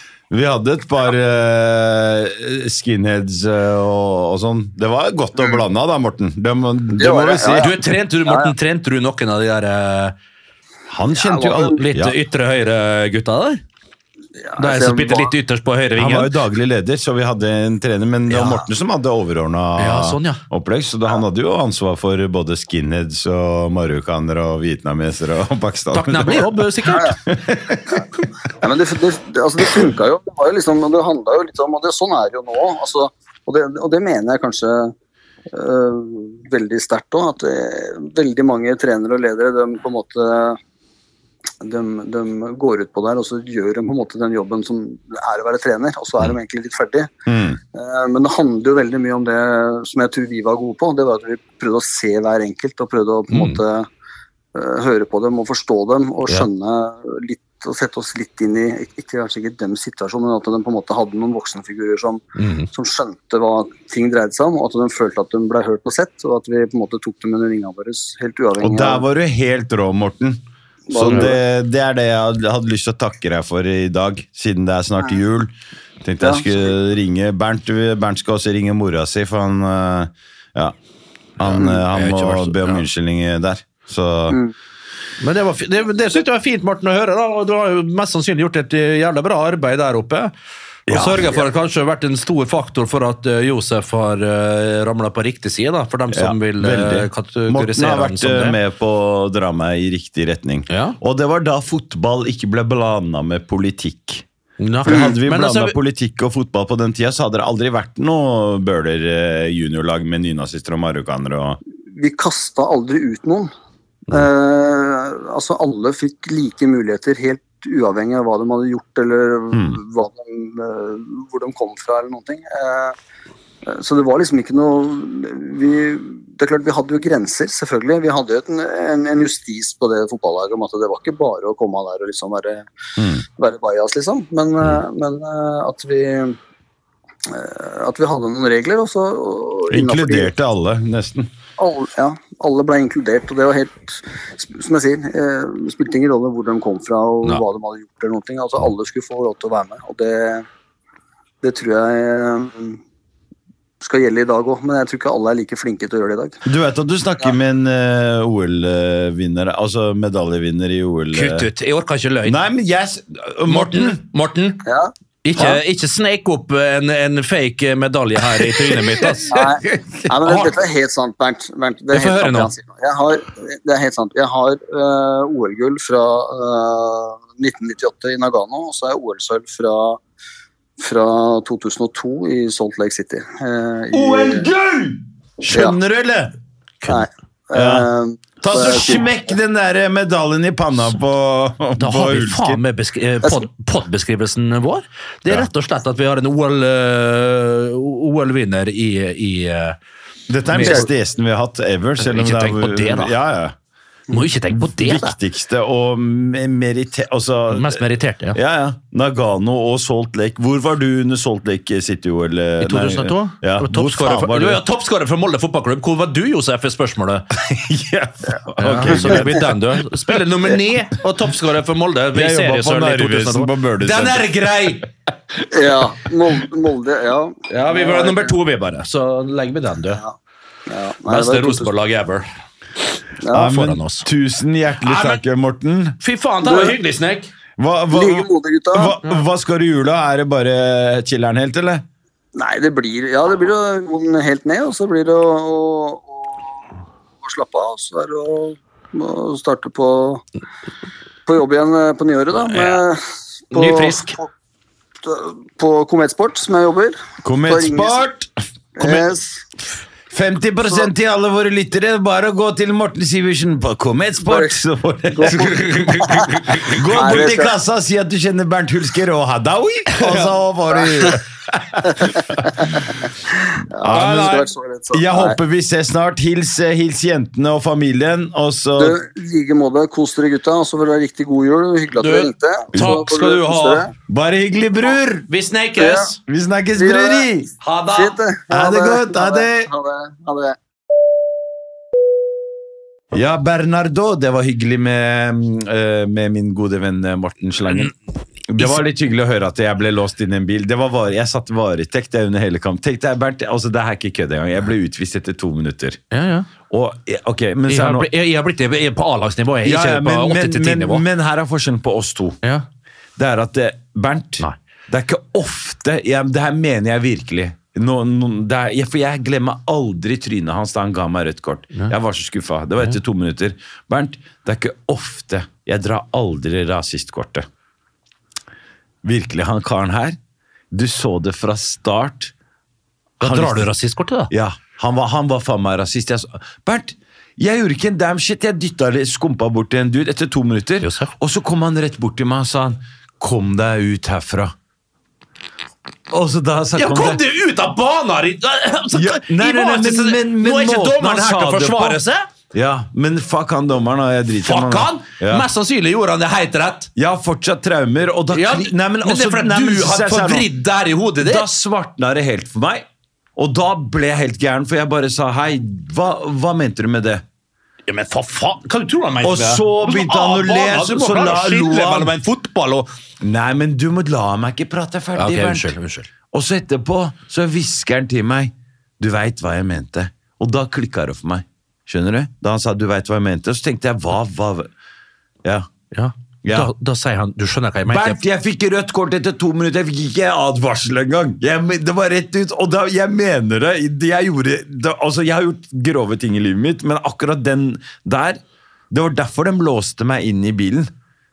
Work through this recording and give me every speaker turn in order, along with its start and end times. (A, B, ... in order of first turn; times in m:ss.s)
0:00.3-0:07.7 A
0:06.9-0:07.7 B
0:07.6-0:10.1 C
0:08.3-0:08.5 B
0:10.9-0:12.1 A
0:11.1-0:11.8 B
0:11.8-0:13.6 C
0:14.4-0:15.3 B
0:14.6-0:16.3 C
0:16.0-0:28.0 A
0:19.8-0:20.4 C
0:25.9-0:27.2 C
0:28.6-0:34.9 B
0:35.5-0:40.6 B
0:41.6-0:47.1 B
0:47.3-0:47.6 A
0:47.7-0:53.9 B
0:53.3-0:53.6 C
0:54.6-1:09.0 B
1:02.4-1:02.7 C
1:08.6-1:10.4 A
1:10.9-1:11.4 B
1:10.9-1:20.8 A
1:16.2-1:16.5 B
1:21.4-1:24.4 A
1:21.4-1:22.8 C
1:25.2-1:30.3 C
1:30.9-1:31.4 A
1:30.9-1:38.6 C
1:36.1-1:44.2 A
1:40.7-1:41.0 C
1:44.6-1:45.8 C
1:44.8-1:51.6 A
1:51.9-1:53.5 B
1:54.1-2:03.0 B
1:59.5-1:59.8 A
2:03.7-2:12.7 B
2:13.0-2:13.2 A
2:13.4-2:16.4 B
2:17.3-2:20.3 B
2:19.7-2:21.3 A
2:21.6-2:30.4 B
2:31.4-2:32.8 B
2:33.8-2:36.4 B
2:36.4-2:41.5 A
2:41.1-2:42.4 C
2:42.2-2:44.0 A
2:43.5-2:44.6 C
2:44.6-2:45.6 B
2:45.2-2:49.4 C
2:48.4-2:49.2 A
2:49.3-3:00.0 B
2:51.9-2:52.5 C
3:00.8-3:04.5 B
3:03.9-3:06.3 A
3:05.5-3:05.8 B
3:06.9-3:09.1 B
3:07.6-3:07.9 A
3:08.4-3:12.6 A
3:11.8-3:19.8 C
3:20.3-3:23.6 A
3:20.5-3:20.9 C
3:22.0-3:23.1 C
3:24.1-3:25.1 C
3:24.5-3:27.8 A
3:27.5-3:28.4 C
3:28.3-3:34.6 A
3:32.6-3:37.2 C
3:37.4-3:40.2 A
3:38.6-3:44.9 C
3:38.9-3:39.2 B
3:42.1-3:44.3 A
3:45.5-3:48.4 B
3:47.5-3:50.0 C
3:50.7-3:51.7 B
3:51.1-3:52.3 C
3:53.2-3:53.6 B
3:53.3-3:56.0 A
3:53.4-3:54.1 C
3:54.8-3:55.2 C
3:56.0-3:57.3 C
3:56.4-3:56.8 B
3:57.6-4:01.8 A
3:57.9-3:59.0 B
4:02.4-4:06.5 B
4:07.2-4:10.2 B
4:11.3-4:14.3 B
4:12.5-4:12.8 C
4:13.5-4:14.2 C
4:15.0-4:18.0 B
4:17.2-4:18.3 A
4:18.8-4:19.4 B
4:20.1-4:32.6 A
4:24.3-4:24.6 B
4:25.1-4:27.5 B
4:26.3-4:26.7 C
4:30.8-4:31.1 B
4:32.0-4:32.9 B
4:33.7-4:35.4 B
4:33.8-4:39.0 A
4:33.9-4:34.2 C
4:38.8-4:43.9 B
4:42.0-4:43.8 C
4:42.7-4:43.1 A
4:44.1-4:45.3 A
4:45.3-4:46.2 C
4:45.8-4:46.1 B
4:46.3-4:47.5 A
4:46.7-4:47.3 B
4:47.6-4:48.2 C
4:47.9-4:50.6 B
4:48.5-4:49.7 A
4:53.1-4:57.9 A
4:58.5-5:06.0 A
5:06.1-5:06.5 C
5:06.7-5:08.1 A
5:07.7-5:11.0 C
5:09.6-5:12.4 A
5:13.2-5:27.5 A
5:29.0-5:30.2 A
5:30.7-5:32.3 A
5:33.2-5:33.7 A
5:33.2-5:34.3 C
5:34.3-5:44.5 A
5:40.8-5:41.1 C
5:46.1-5:47.2 A
5:46.8-5:52.3 C
5:48.9-5:52.0 A
5:52.5-5:55.5 A
5:54.4-5:56.9 C
5:57.0-6:00.5 A
5:58.3-6:01.5 C
6:01.2-6:07.2 A
6:07.9-6:12.9 C
6:09.2-6:12.1 A
6:13.2-6:15.7 A
6:15.2-6:16.1 C
6:16.3-6:24.7 A
6:25.9-6:28.2 C
6:26.4-6:26.7 A
6:27.9-6:38.4 A
6:38.9-6:40.9 A